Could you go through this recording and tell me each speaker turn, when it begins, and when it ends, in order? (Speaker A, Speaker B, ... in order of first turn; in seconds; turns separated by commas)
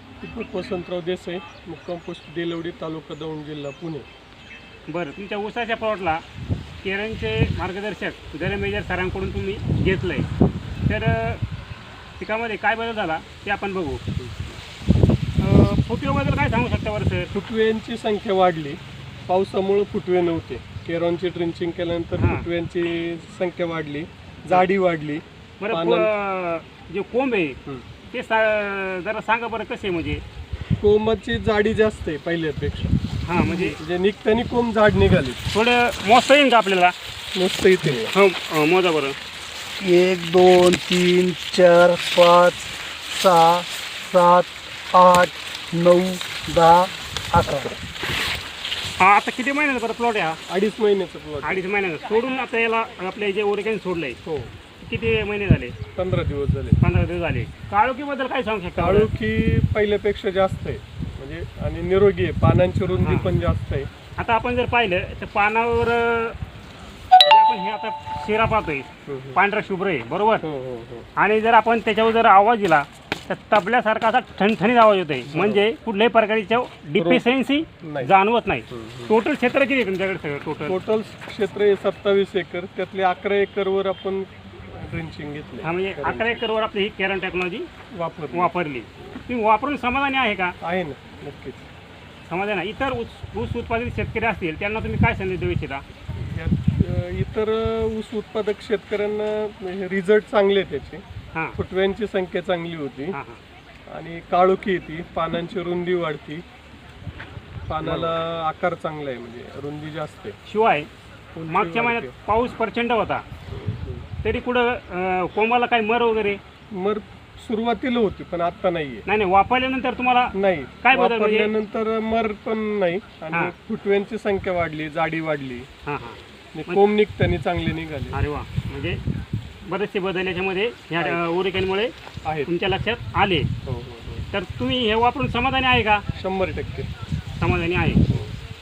Speaker A: 0.2-4.1, Speaker B: 4.9-6.2, Speaker B: 6.8-10.3, Speaker B: 10.9-11.4, Speaker B: 12.2-14.0, Speaker A: 14.2-14.5, Speaker B: 15.4-17.3, Speaker A: 17.3-26.1, Speaker B: 22.2-22.5, Speaker B: 25.6-27.6, Speaker B: 28.1-30.2, Speaker A: 30.8-33.0, Speaker B: 33.3-33.8, Speaker A: 33.5-35.4, Speaker B: 35.5-37.0, Speaker A: 37.3-38.1, Speaker B: 38.1-39.2, Speaker C: 39.8-47.8, Speaker B: 49.0-50.4, Speaker A: 50.5-51.6, Speaker B: 51.4-54.2, Speaker A: 54.2-54.5, Speaker B: 54.8-55.8, Speaker A: 56.0-56.8, Speaker B: 56.8-59.1, Speaker A: 58.8-63.9, Speaker B: 63.0-63.3, Speaker B: 64.2-66.4, Speaker B: 67.2-70.5, Speaker A: 69.1-69.4, Speaker A: 70.4-71.1, Speaker B: 71.2-80.8, Speaker A: 75.3-75.7, Speaker A: 77.0-77.3, Speaker A: 77.8-78.1, Speaker A: 78.7-79.1, Speaker A: 80.7-86.4, Speaker B: 85.6-87.7, Speaker A: 87.9-88.5, Speaker B: 88.3-90.6, Speaker A: 90.6-91.6, Speaker B: 92.3-95.8, Speaker A: 96.2-101.0, Speaker A: 101.6-103.2, Speaker B: 103.1-103.4, Speaker A: 103.9-106.4, Speaker A: 107.7-110.4, Speaker B: 107.8-108.1, Speaker B: 110.5-110.9, Speaker A: 111.3-112.1, Speaker B: 111.5-113.2, Speaker A: 113.5-114.1, Speaker B: 114.2-116.4, Speaker A: 116.7-119.0, Speaker B: 119.1-121.5, Speaker A: 120.3-125.7, Speaker B: 125.8-126.9, Speaker A: 126.5-128.2, Speaker B: 128.1-129.0, Speaker B: 129.7-131.9, Speaker B: 132.5-133.5, Speaker A: 133.7-134.2, Speaker B: 134.3-136.0, Speaker A: 136.1-136.9, Speaker B: 137.4-138.0